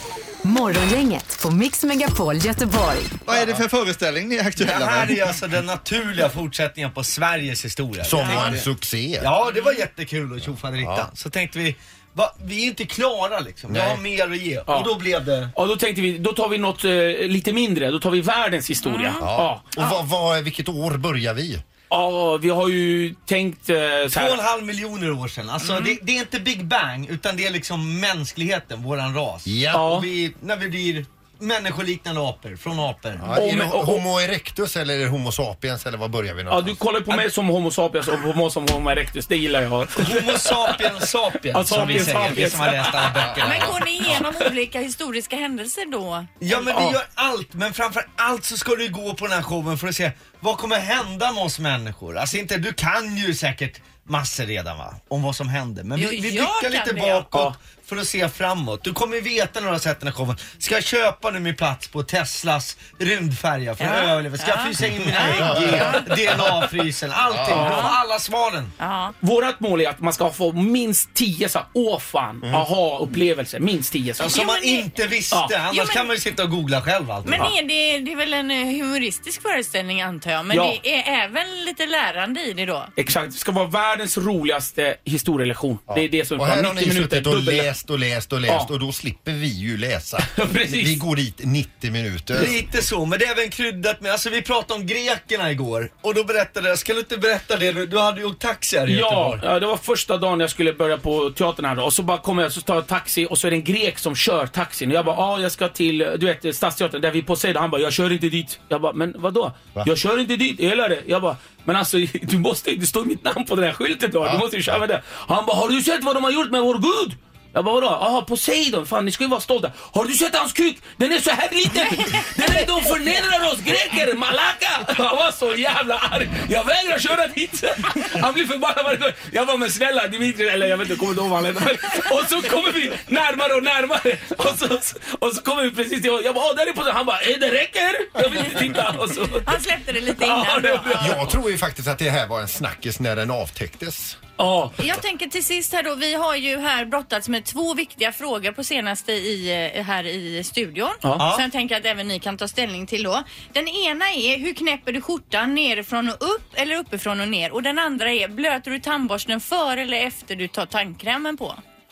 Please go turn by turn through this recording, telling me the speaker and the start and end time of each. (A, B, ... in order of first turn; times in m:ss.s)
0:00.4-0:03.2 A
0:03.3-0:05.3 B
0:04.6-0:08.6 C
0:08.0-0:09.3 D
0:08.2-0:08.6 E
0:09.2-0:15.5 C
0:09.4-0:09.8 E
0:10.8-0:11.1 D
0:13.7-0:14.0 D
0:14.7-0:14.9 F
0:15.5-0:19.7 F
0:18.8-0:19.2 E
0:19.2-0:21.6 D
0:21.9-0:24.4 F
0:24.1-0:33.4 C
0:25.6-0:26.0 E
0:29.4-0:29.9 D
0:29.7-0:30.1 F
0:33.2-0:36.8 D
0:33.3-0:34.0 F
0:36.5-0:43.3 F
0:39.9-0:43.8 C
0:43.4-0:46.9 E
0:43.4-0:43.6 D
0:46.4-1:08.7 C
0:46.7-0:47.0 F
0:56.0-0:57.3 E
1:03.8-1:06.0 E
1:05.4-1:05.9 D
1:07.3-1:07.6 D
1:07.5-1:07.9 F
1:07.6-1:08.0 E
1:08.8-1:09.1 E
1:09.2-1:14.4 F
1:14.2-1:17.5 C
1:14.2-1:14.9 E
1:15.3-1:15.6 F
1:15.7-1:16.1 E
1:17.2-1:22.9 E
1:20.5-1:20.8 F
1:23.0-1:27.7 F
1:25.9-1:32.6 D
1:30.3-1:31.0 F
1:32.3-1:39.4 C
1:38.8-2:21.3 F
1:54.2-1:54.8 D
2:19.4-2:21.2 E
2:21.0-2:24.2 D
2:24.4-2:24.8 F
2:24.8-2:41.6 E
2:31.2-2:31.4 C